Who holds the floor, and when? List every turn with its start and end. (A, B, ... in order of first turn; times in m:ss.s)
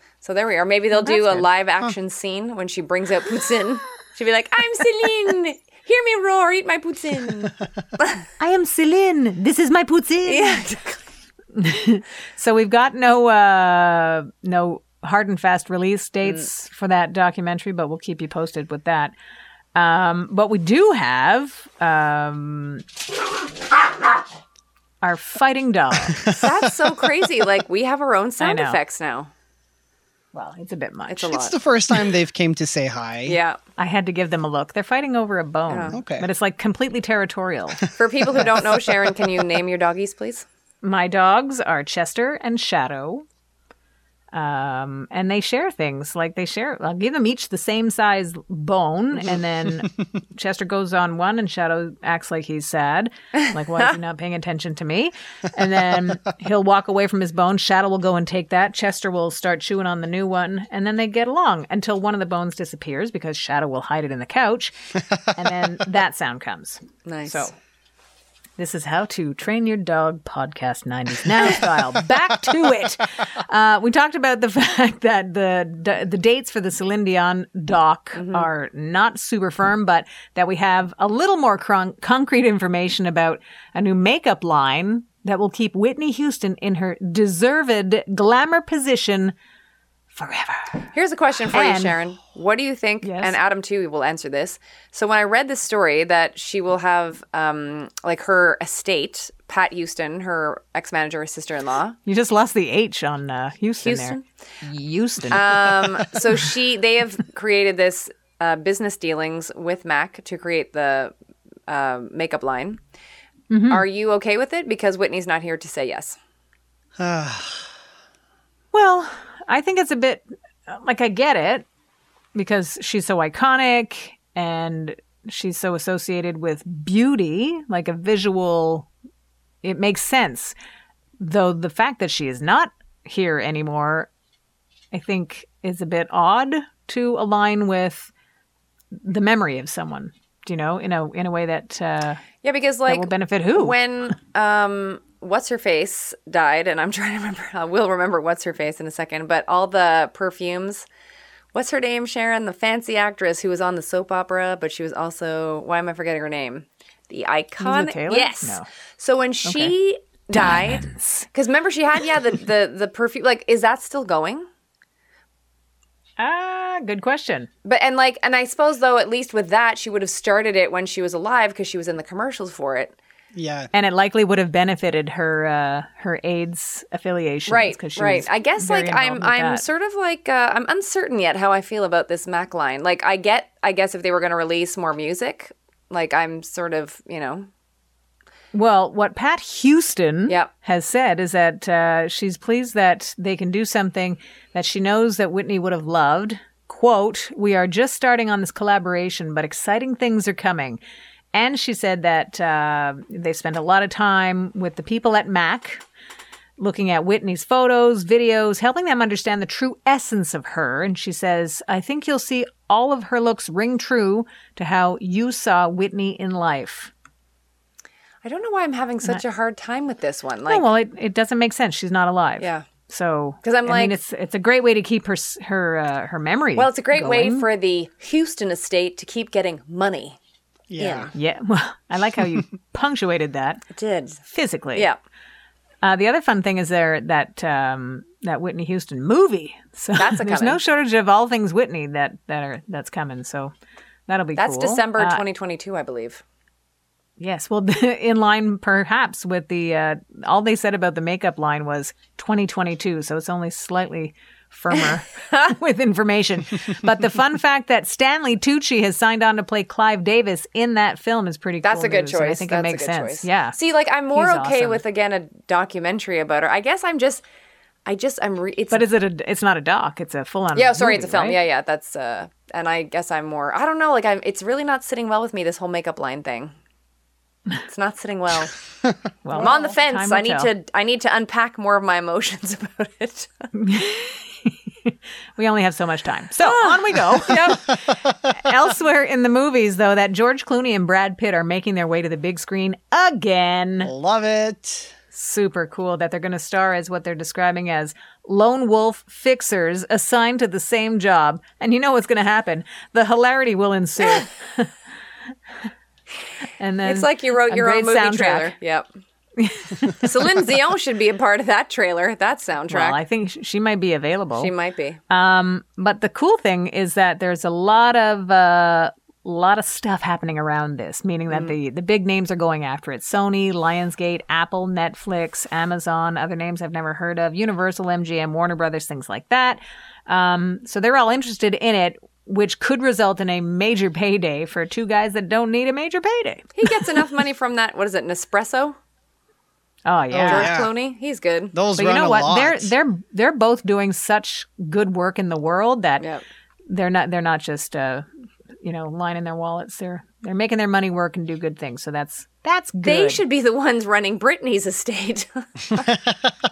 0:00.2-0:08.2 A
0:01.0-0:01.5 B
0:08.4-0:10.6 B
0:10.3-0:11.0 A
0:11.5-0:19.1 B
0:19.8-0:22.8 B
0:25.0-0:26.2 B
0:26.3-0:29.3 A
0:28.4-0:28.8 B
0:30.3-0:31.3 B
0:31.1-0:31.6 A
0:31.3-0:33.4 C
0:33.3-0:33.6 A
0:33.8-0:37.8 B
0:35.7-0:36.0 A
0:35.9-0:36.3 C
0:38.0-0:40.4 A
0:40.8-0:43.3 B
0:44.3-1:04.8 B
1:05.3-1:07.5 B
1:07.0-1:07.5 A
1:08.6-1:29.4 B
1:18.2-1:18.5 A
1:30.1-1:30.9 B
1:30.9-1:42.0 A
1:31.5-1:32.0 B
1:33.0-1:33.4 B
1:42.1-1:45.8 B
1:43.8-1:44.2 A
1:45.3-1:51.1 A
1:51.7-1:52.8 A
1:53.5-1:53.8 B
1:53.7-1:56.2 A
1:57.0-1:57.7 C
1:58.7-2:01.7 B
2:02.4-2:08.9 B
2:09.6-2:10.6 B
2:11.2-2:14.1 B
2:14.9-2:18.1 B
2:18.9-2:22.2 B
2:22.4-2:30.9 A
2:22.9-2:23.8 B
2:31.5-2:44.5 A
2:37.6-2:38.7 B
2:39.4-2:39.7 B
2:40.4-2:41.3 B
2:46.2-2:47.5 B
2:47.6-2:53.0 A
2:53.3-2:53.7 C
2:53.7-2:59.6 B
2:57.5-3:07.5 A
3:08.5-3:20.8 B
3:21.3-3:25.8 B
3:26.6-3:36.9 B
3:38.2-3:40.7 A
3:40.5-3:47.5 B
3:43.4-3:44.0 A
3:46.6-3:50.2 A
3:50.7-3:51.1 C
3:50.8-3:51.1 A
3:51.1-3:53.6 B
3:53.7-3:54.2 A
3:54.3-3:54.9 B
3:55.8-4:03.5 B
4:00.0-4:00.6 A
4:04.1-4:05.2 B
4:04.4-4:06.2 A
4:07.2-4:23.6 B
4:14.8-4:15.5 A
4:21.6-4:27.2 A
4:24.1-4:24.8 B
4:27.9-4:28.9 A
4:28.7-4:31.4 B
4:30.6-4:36.5 A
4:37.7-4:38.6 A
4:39.2-4:40.5 B
4:39.3-4:43.5 A
4:43.5-4:53.9 B
4:46.4-4:47.7 A
4:53.8-4:54.9 C
4:55.1-5:04.7 B
5:06.6-5:08.5 B
5:06.8-5:08.9 A
5:09.4-5:10.1 B
5:10.0-5:13.0 A
5:12.7-5:14.5 B
5:14.4-5:15.0 A
5:15.1-5:36.5 B
5:36.6-5:38.8 A
5:39.8-5:40.5 B
5:40.1-5:40.7 C
5:40.3-5:41.6 A
5:41.5-5:42.7 C
5:41.8-5:46.1 B
5:46.7-5:48.1 B
5:48.6-5:53.2 B
5:52.8-5:55.9 A